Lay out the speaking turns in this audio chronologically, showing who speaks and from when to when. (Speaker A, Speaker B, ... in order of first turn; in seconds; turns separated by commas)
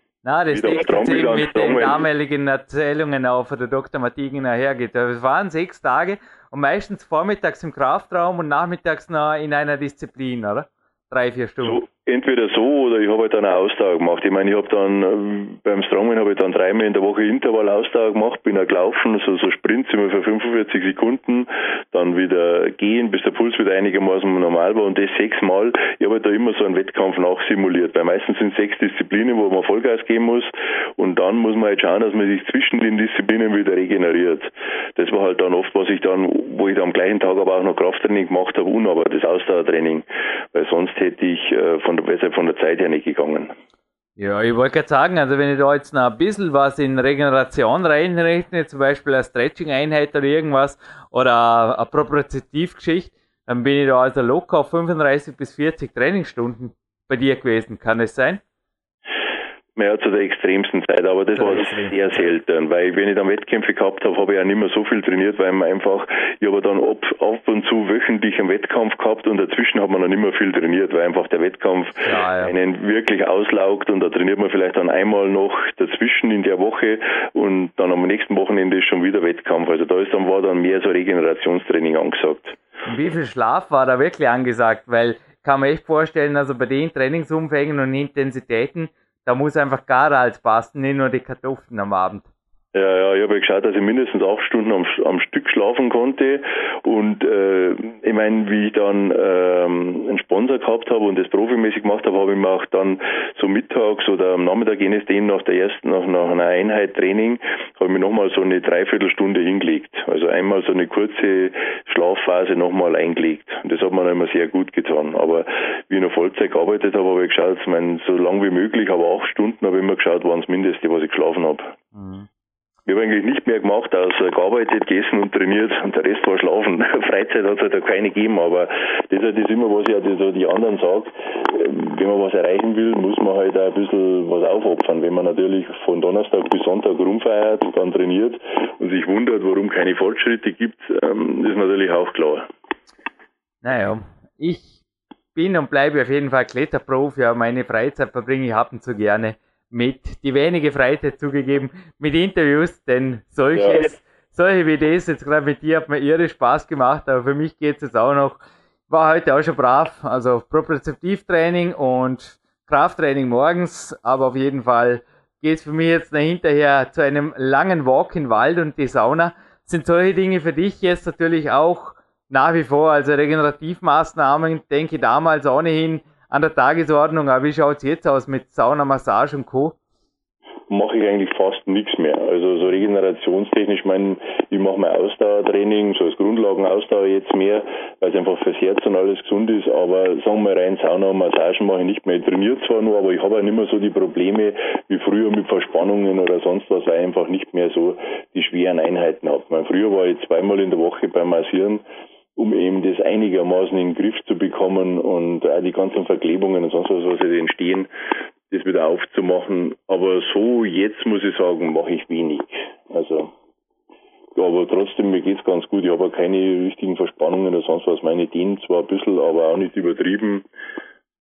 Speaker A: 0.2-11.8, Speaker B: 0.5-2.1, Speaker B: 11.6-43.5, Speaker A: 44.2-58.4, Speaker B: 59.8-82.6, Speaker A: 61.4-62.3, Speaker A: 72.0-72.5, Speaker A: 82.9-92.3, Speaker B: 92.7-121.8, Speaker A: 122.0-122.3, Speaker B: 122.9-142.5, Speaker A: 143.6-144.8, Speaker A: 145.3-179.8, Speaker B: 153.5-153.8, Speaker B: 180.7-201.8, Speaker B: 202.4-207.9, Speaker B: 208.5-213.3, Speaker B: 214.3-220.5